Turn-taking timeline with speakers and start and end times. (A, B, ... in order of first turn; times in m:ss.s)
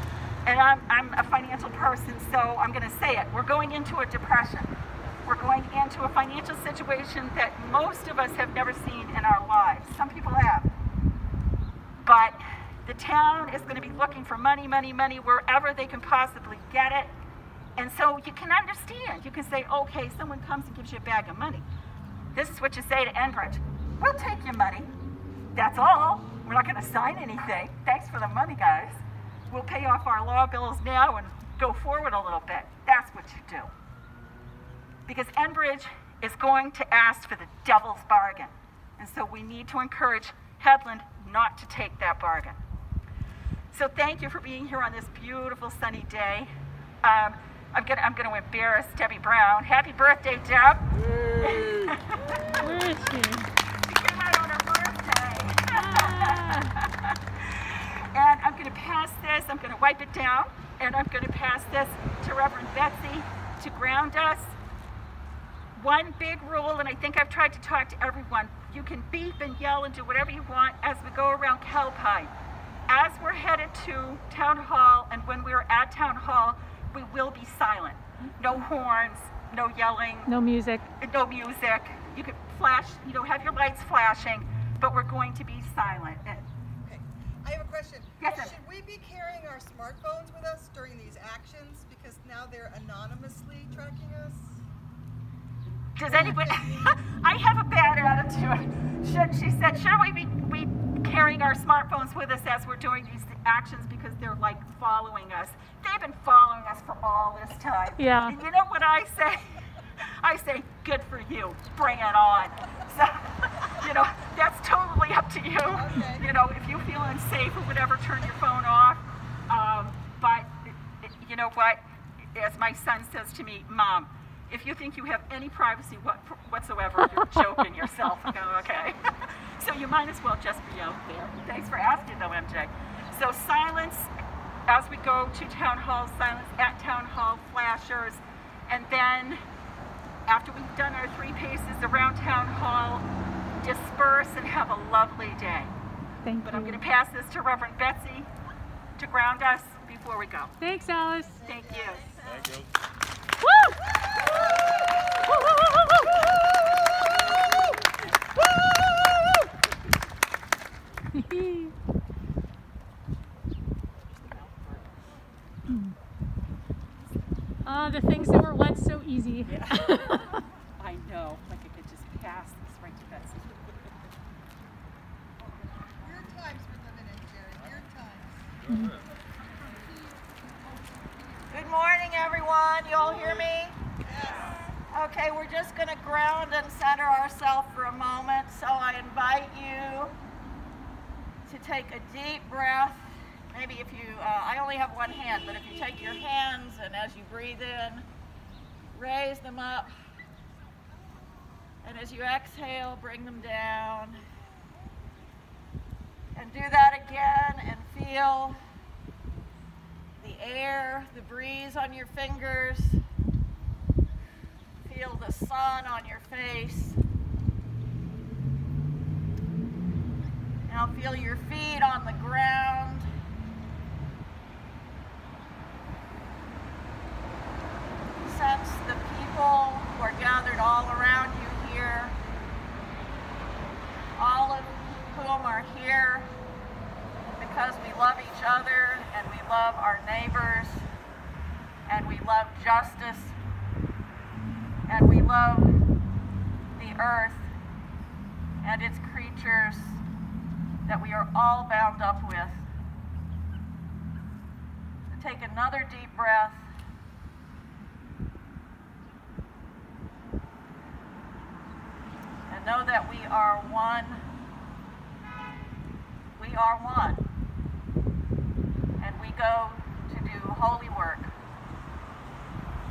0:00.4-0:10.7 A
0:12.0-0:17.1 A
0:17.8-0:21.6 A
0:22.3-0:24.9 A
0:25.5-0:33.7 A
0:35.0-0:42.6 A
0:43.7-0:52.7 A
0:52.5-0:53.5 B
0:53.8-1:04.6 A
0:55.7-0:56.7 B
1:05.7-1:12.3 A
1:12.9-1:20.3 A
1:20.3-1:20.9 B
1:21.0-1:26.4 A
1:26.8-1:34.6 C
1:28.2-1:28.5 A
1:36.0-2:01.8 A
1:36.1-1:36.8 C
1:48.0-1:48.4 B
1:55.7-1:56.2 C
2:02.3-2:14.1 A
2:14.7-2:19.4 A
2:20.3-2:23.1 A
2:23.6-2:25.7 A
2:26.2-2:26.8 B
2:26.4-2:28.3 A
2:29.0-2:30.5 A
2:30.6-2:31.4 B
2:31.4-2:32.2 A
2:41.2-2:41.7 B
2:44.1-2:44.9 A
2:47.6-2:50.4 B
2:49.4-2:53.7 A
2:56.0-2:58.4 C
3:01.5-3:03.7 D
3:04.1-3:04.5 C
3:05.0-3:10.1 D
3:11.5-3:18.0 D
3:18.9-3:19.9 D
3:21.8-3:24.2 D
3:26.3-3:28.6 D
3:30.2-3:33.0 D
3:34.8-3:37.0 D
3:40.7-3:43.1 D
3:48.2-3:52.2 D
3:54.2-3:56.3 D
3:57.4-4:00.8 D
4:01.9-4:03.3 D
4:04.9-4:05.7 D
4:06.8-4:07.4 D
4:08.6-4:09.9 D
4:10.9-4:12.5 D
4:15.1-4:16.6 D
4:22.5-4:24.2 D
4:26.4-4:27.2 D
4:29.0-4:31.3 D